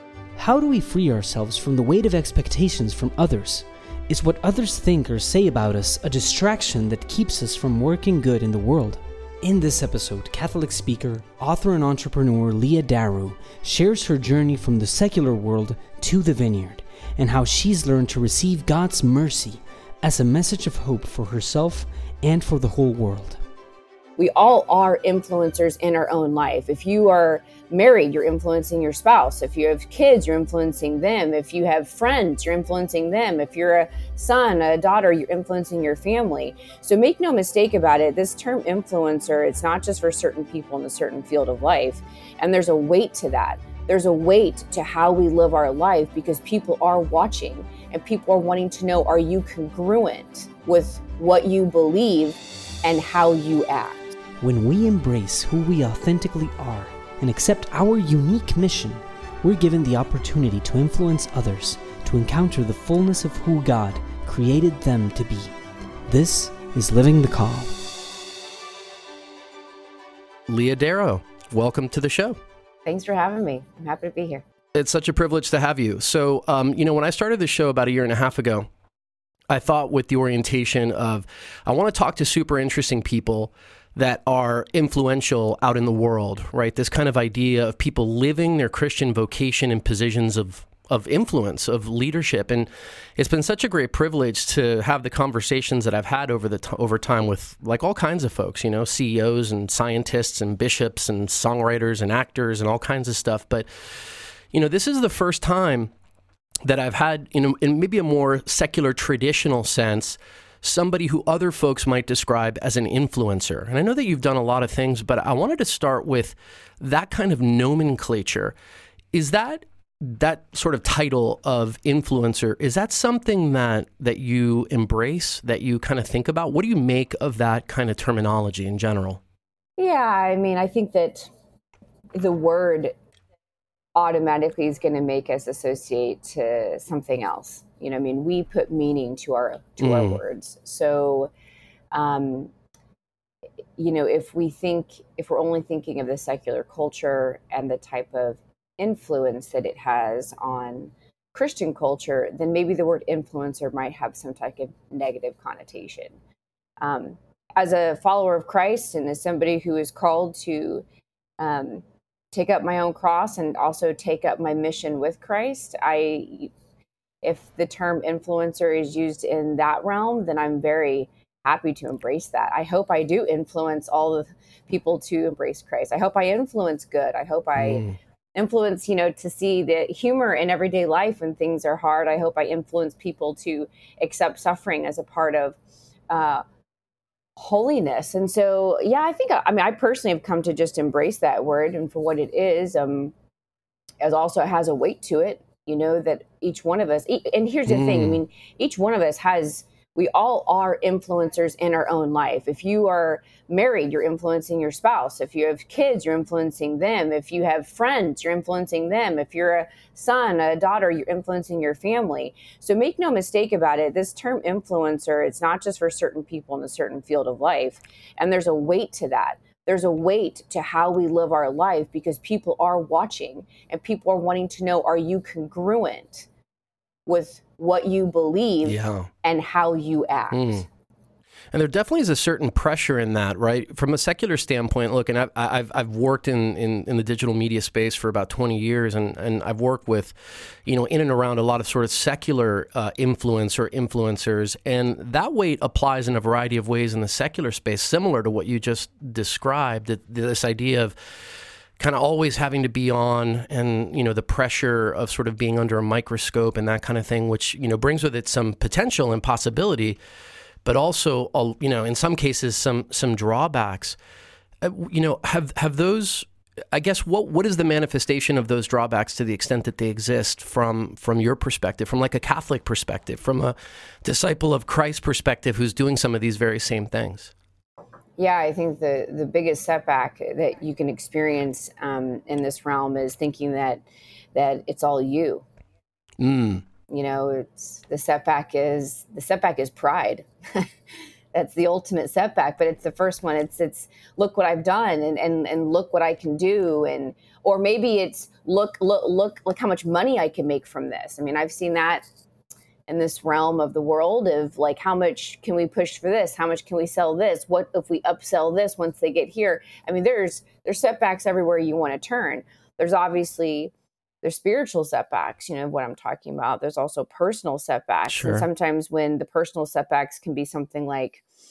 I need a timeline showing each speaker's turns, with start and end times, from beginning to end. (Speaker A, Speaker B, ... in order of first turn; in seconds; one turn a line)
Speaker A: 0.4-23.4
Speaker B: 24.2-54.1
Speaker A: 54.4-67.7
Speaker C: 70.5-72.4
Speaker B: 72.8-74.4
Speaker C: 74.7-78.7
Speaker C: 79.5-105.9
Speaker C: 106.6-118.5
Speaker C: 119.1-129.2
Speaker B: 129.8-131.3
Speaker B: 132.1-132.9
Speaker B: 133.9-141.3
Speaker C: 139.8-140.2
Speaker B: 141.9-142.5
Speaker B: 143.8-156.1
Speaker B: 156.8-160.8
Speaker B: 161.4-166.5
Speaker B: 167.2-185.6
Speaker C: 177.6-177.9
Speaker B: 186.1-186.4
Speaker B: 187.3-193.1
Speaker B: 194.0-226.3
Speaker C: 197.7-198.2
Speaker B: 227.1-230.6
Speaker C: 228.6-229.1
Speaker C: 230.3-230.6
Speaker C: 231.5-250.9
Speaker C: 251.8-260.0
Speaker C: 260.6-264.0
Speaker C: 264.6-277.3
Speaker B: 278.2-283.8
Speaker B: 284.3-285.4
Speaker C: 286.2-286.6
Speaker B: 286.9-290.7
Speaker B: 291.3-302.0
Speaker B: 302.9-313.7
Speaker B: 314.2-321.2
Speaker C: 318.1-318.4